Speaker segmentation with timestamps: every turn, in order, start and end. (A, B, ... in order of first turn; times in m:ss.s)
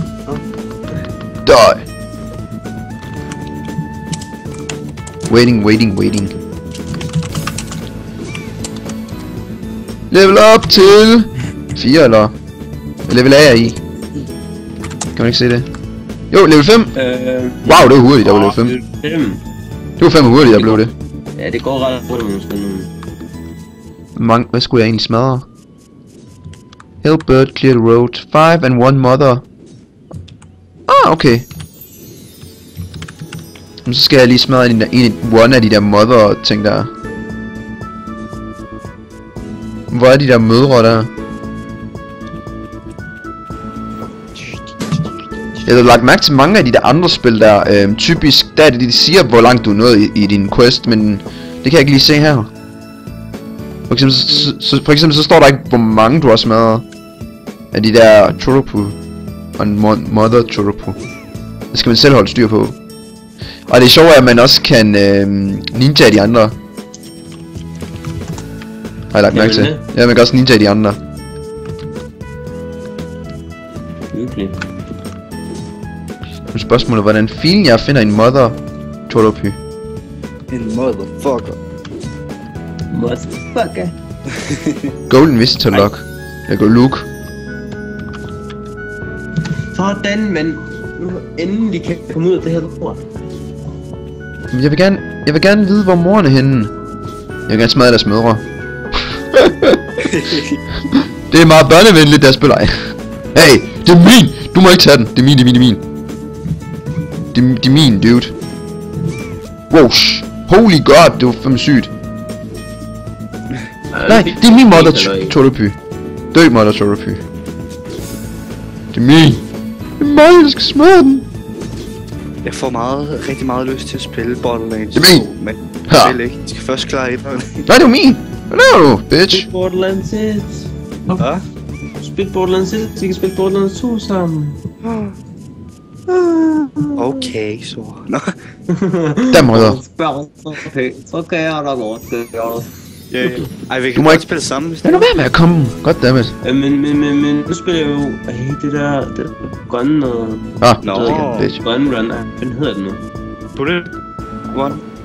0:01.4-0:01.8 A
0:05.3-0:06.3 A
0:10.1-0:12.4 A
0:13.1-0:13.8 A
0:15.1-0:15.7 A
0:16.3-0:16.9 A
0:17.0-0:19.4 B
0:17.7-0:18.8 A
0:20.0-0:20.9 A
0:20.4-0:22.9 B
0:24.2-0:25.5 A
0:27.0-0:29.4 A
0:30.9-0:31.5 A
0:33.8-0:36.9 A
0:39.9-0:41.1 A
0:45.6-0:52.5 A
0:53.9-0:56.8 A
0:57.7-0:59.0 A
0:59.6-1:01.0 A
1:01.7-1:02.8 A
1:03.7-1:06.6 A
1:09.1-1:11.0 A
1:09.3-1:09.8 B
1:14.1-1:14.6 B
1:16.5-1:19.6 A
1:20.5-1:21.6 C
1:22.9-1:24.0 B
1:24.3-1:24.9 C
1:25.1-1:27.1 A
1:29.7-1:33.0 B
1:34.5-1:36.7 A
1:37.5-1:39.8 A
1:40.1-1:40.4 C
1:40.8-1:45.8 A
1:47.3-1:48.4 A
1:49.7-1:51.9 A
1:53.9-1:55.4 B
1:54.1-1:55.8 A
1:56.3-1:57.2 A
1:58.9-1:59.4 A
2:00.0-2:01.3 A
2:02.4-2:07.7 C
2:04.9-2:05.3 A
2:05.9-2:06.2 A
2:07.7-2:09.5 A
2:09.3-2:11.3 B
2:12.0-2:14.6 B
2:14.8-2:15.2 C
2:16.1-2:17.3 B
2:17.0-2:18.3 C
2:18.7-2:22.7 B
2:19.3-2:19.8 A
2:23.1-2:25.1 C
2:23.2-2:23.5 B
2:23.9-2:24.2 A
2:24.8-2:26.3 A
2:26.4-2:33.0 B
2:30.6-2:31.6 A
2:30.8-2:31.5 C
2:33.6-2:33.9 C
2:34.5-2:34.8 C